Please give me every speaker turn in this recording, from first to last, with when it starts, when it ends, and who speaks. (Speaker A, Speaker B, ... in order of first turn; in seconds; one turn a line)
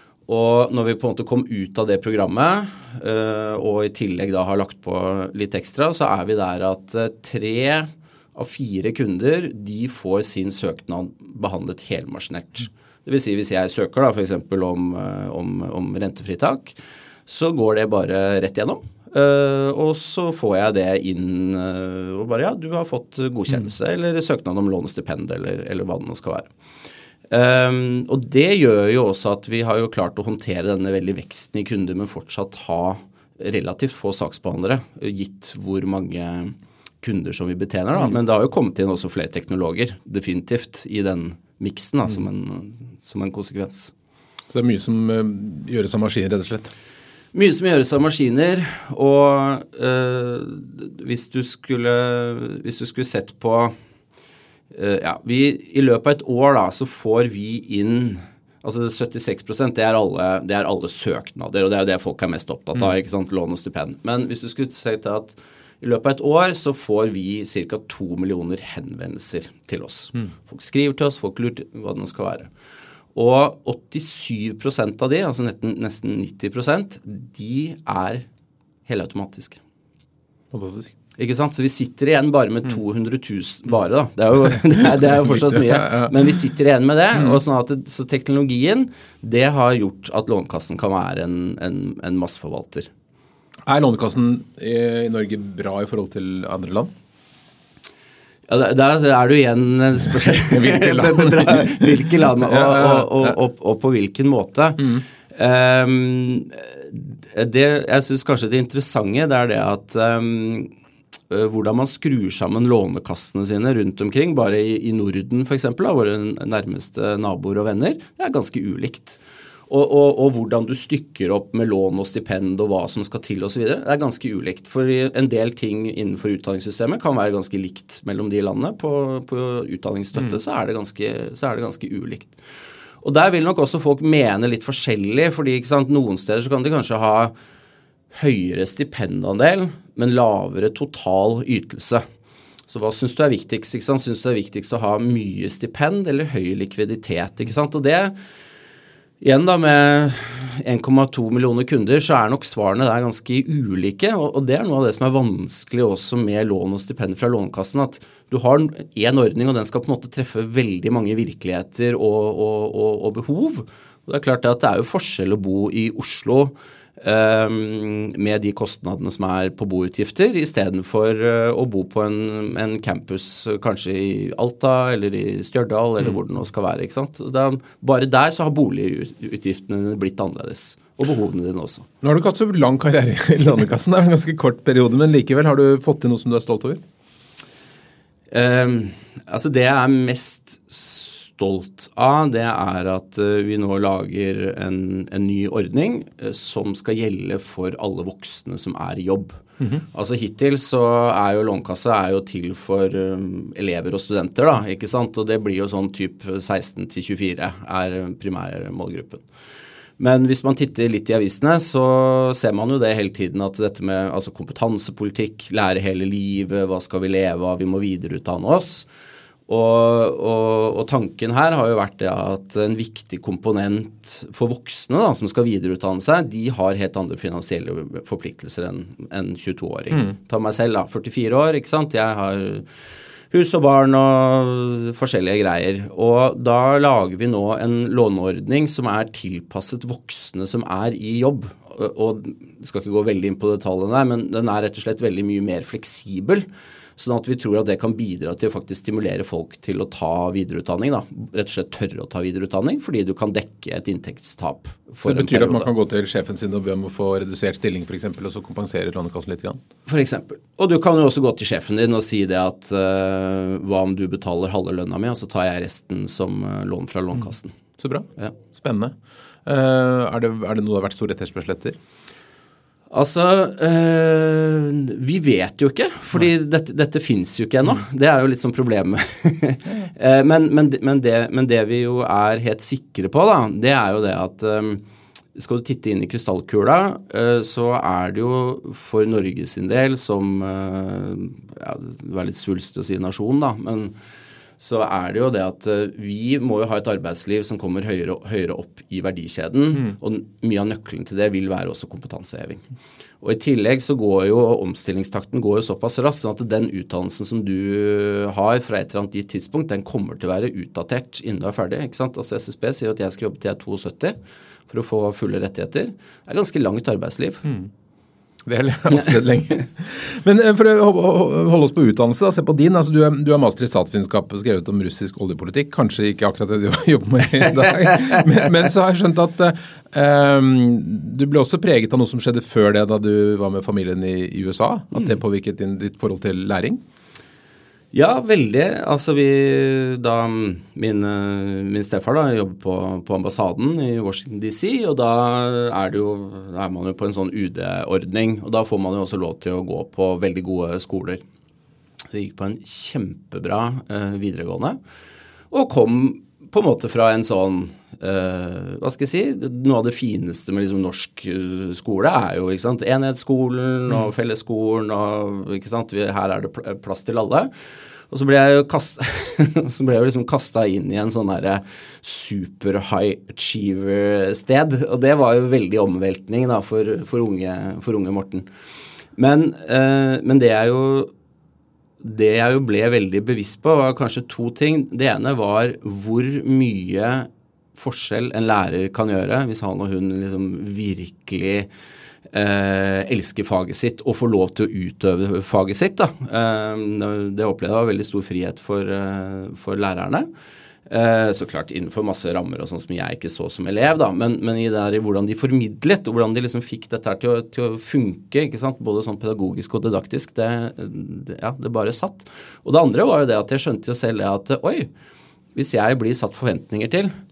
Speaker A: 0.3-16.8
Speaker A: 17.3-26.5
Speaker A: 27.3-43.9
Speaker B: 44.5-46.7
Speaker A: 47.3-53.7
Speaker A: 54.7-72.5
Speaker A: 73.1-78.2
Speaker A: 78.9-79.6
Speaker B: 80.5-80.9
Speaker A: 81.2-92.9
Speaker B: 85.1-86.2
Speaker B: 87.1-87.4
Speaker B: 93.7-96.9
Speaker A: 98.5-110.7
Speaker B: 100.5-103.3
Speaker A: 111.3-132.4
Speaker A: 133.0-137.3
Speaker A: 138.1-142.0
Speaker A: 142.7-148.1
Speaker A: 149.2-181.9
Speaker B: 182.0-186.8
Speaker A: 188.3-209.2
Speaker A: 210.0-218.9
Speaker A: 219.5-232.7
Speaker A: 233.3-246.4
Speaker A: 247.0-255.7
Speaker B: 255.0-259.6
Speaker A: 259.9-267.6
Speaker B: 267.8-268.9
Speaker B: 269.4-271.8
Speaker A: 272.9-284.8
Speaker A: 285.3-293.9
Speaker A: 294.6-302.6
Speaker A: 303.2-314.1
Speaker A: 314.7-317.4
Speaker B: 317.4-317.7
Speaker B: 318.4-336.8
Speaker A: 337.9-351.2
Speaker A: 352.1-354.8
Speaker A: 355.5-367.5
Speaker A: 368.1-378.5
Speaker A: 379.1-381.1
Speaker A: 382.0-391.7
Speaker A: 392.3-400.3
Speaker A: 400.9-414.9
Speaker A: 415.5-417.1